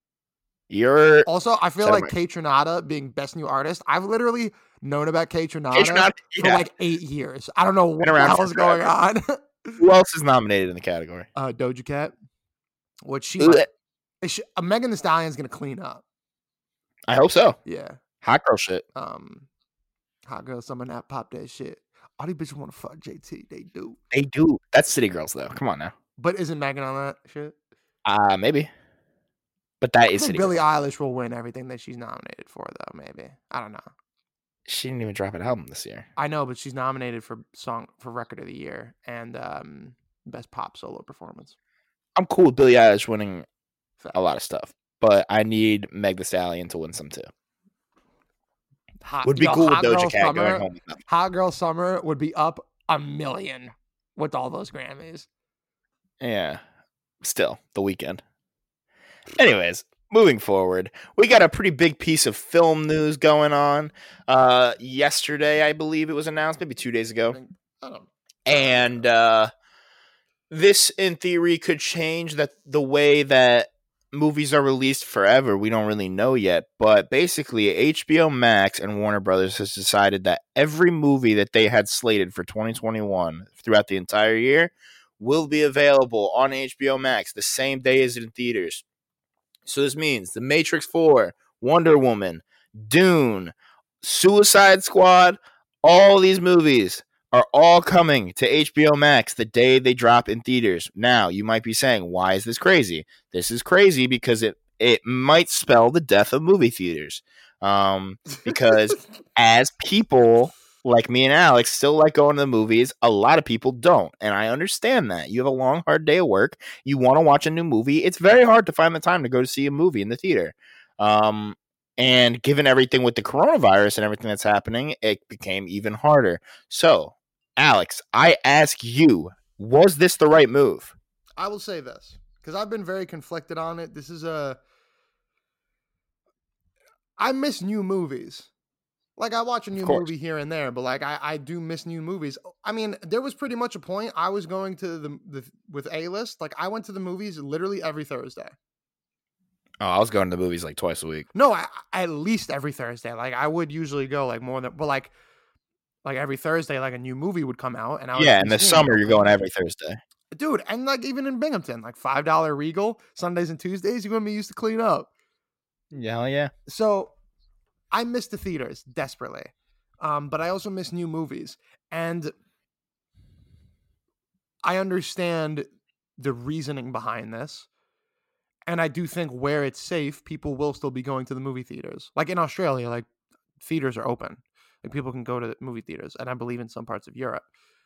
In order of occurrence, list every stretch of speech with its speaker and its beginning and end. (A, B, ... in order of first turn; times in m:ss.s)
0:00.7-0:01.3 A
0:01.2-0:09.8 B
0:01.8-0:02.1 A
0:05.7-0:06.6 A
0:08.0-0:08.9 A
0:09.8-0:11.3 A
0:11.3-0:12.1 B
0:13.0-0:13.7 B
0:13.4-0:13.7 A
0:14.2-0:16.0 B
0:17.1-0:17.6 A
0:17.6-0:18.0 B
0:18.2-0:18.8 A
0:18.9-0:19.5 B
0:20.3-0:24.0 B
0:24.1-0:25.9 A
0:26.2-0:27.6 B
0:28.0-0:28.7 A
0:29.8-0:30.6 A
0:30.1-0:33.9 B
0:34.7-0:36.1 A
0:36.2-0:41.5 B
0:42.2-0:43.4 A
0:44.1-0:47.3 A
0:49.0-0:55.3 B
0:49.2-0:51.0 A
0:56.2-0:56.6 A
0:57.2-0:58.2 A
0:59.4-1:07.4 A
1:07.3-1:09.0 B
1:08.4-1:09.5 A
1:10.5-1:28.8 A
1:29.6-2:10.9 A
2:11.4-2:14.6 B
2:17.2-2:18.5 B
2:19.2-2:28.6 B
2:19.8-2:20.1 A
2:29.8-2:31.3 A
2:31.3-2:35.1 B
2:36.0-2:39.3 B
2:38.2-2:40.0 A
2:40.3-2:45.1 B
2:45.9-2:46.5 A
2:46.7-2:47.1 B
2:47.9-2:52.3 B
2:54.6-2:55.7 B
2:56.2-2:57.7 B
2:58.7-3:03.1 B
3:03.6-3:07.4 B